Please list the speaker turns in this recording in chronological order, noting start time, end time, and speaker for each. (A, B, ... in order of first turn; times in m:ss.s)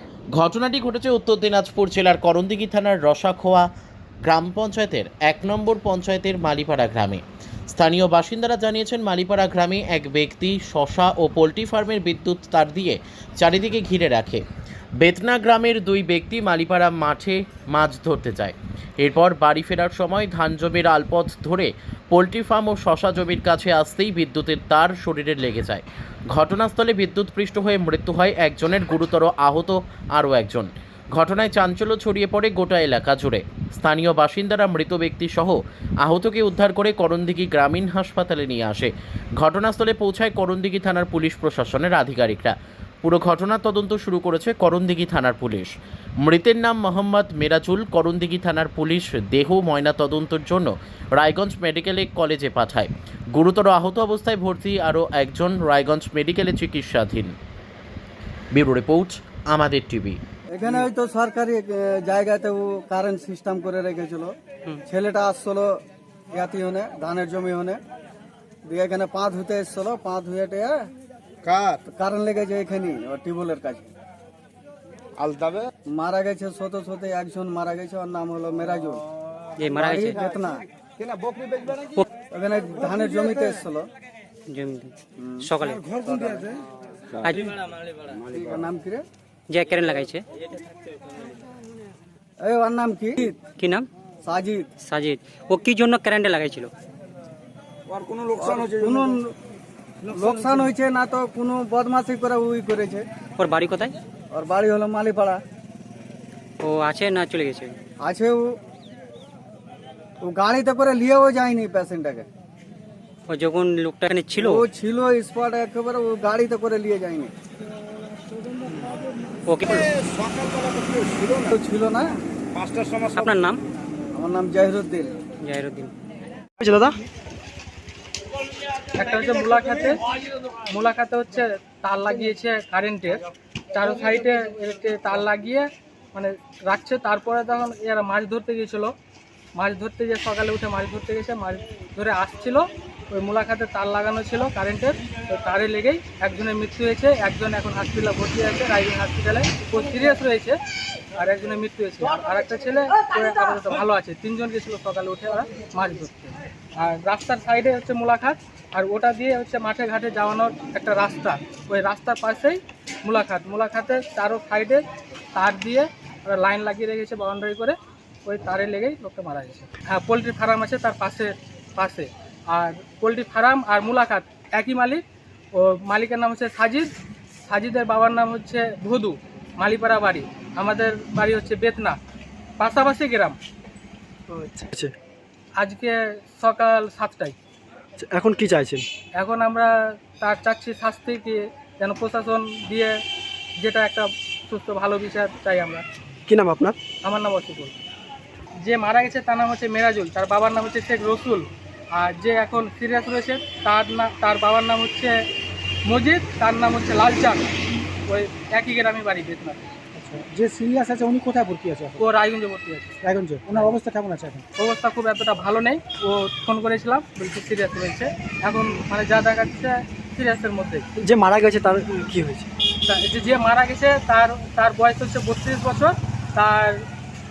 0:00.3-0:03.7 A
0:04.2-0:14.4 A
0:15.0-0:57.3 A
0:58.5-1:00.2 A
1:00.5-1:04.3 B
1:04.9-1:05.7 B
1:06.3-1:07.8 B
1:08.7-1:10.9 B
1:11.4-1:11.8 C
1:11.8-1:13.9 B
1:15.2-1:15.7 C
1:15.9-1:19.0 B
1:19.6-1:20.1 D
1:19.8-1:20.6 B
1:21.0-1:21.8 C
1:22.3-1:23.8 B
1:24.5-1:25.8 D
1:25.2-1:25.5 B
1:26.0-1:26.5 B
1:27.2-1:27.5 D
1:28.2-1:29.0 B
1:29.5-1:30.2 D
1:32.4-1:33.4 B
1:33.6-1:33.9 D
1:34.2-1:34.6 B
1:34.8-1:36.7 D
1:37.9-1:38.9 C
1:38.4-1:39.3 B
1:40.1-1:43.0 B
1:43.4-1:43.9 D
1:44.3-1:45.4 B
1:46.6-1:47.8 D
1:48.0-1:48.5 B
1:50.2-1:52.3 B
1:53.3-1:54.6 D
1:54.4-1:57.3 B
1:58.7-1:58.9 D
1:59.5-1:59.9 D
2:00.0-2:01.5 C
2:01.5-2:02.1 B
2:02.5-2:03.2 C
2:03.1-2:03.6 D
2:04.1-2:05.1 B
2:05.4-2:05.9 D
2:06.6-2:07.0 E
2:08.9-2:10.0 F
2:10.7-2:18.9 F
2:19.6-2:30.6 F
2:31.2-2:55.0 F
2:55.5-2:56.9 F
2:57.5-3:02.0 F
3:02.6-3:03.4 F
3:04.3-3:04.9 E
3:05.6-3:07.3 F
3:08.0-3:08.8 E
3:09.2-3:13.0 F
3:13.6-3:15.8 F
3:16.3-3:16.8 E
3:17.0-3:17.7 F
3:18.6-3:25.2 F
3:25.9-3:27.4 F
3:28.1-3:29.7 F
3:29.9-3:32.0 E
3:32.0-3:33.0 F
3:33.0-3:34.4 E
3:34.6-3:40.8 F
3:41.0-3:42.5 E
3:42.9-3:46.8 F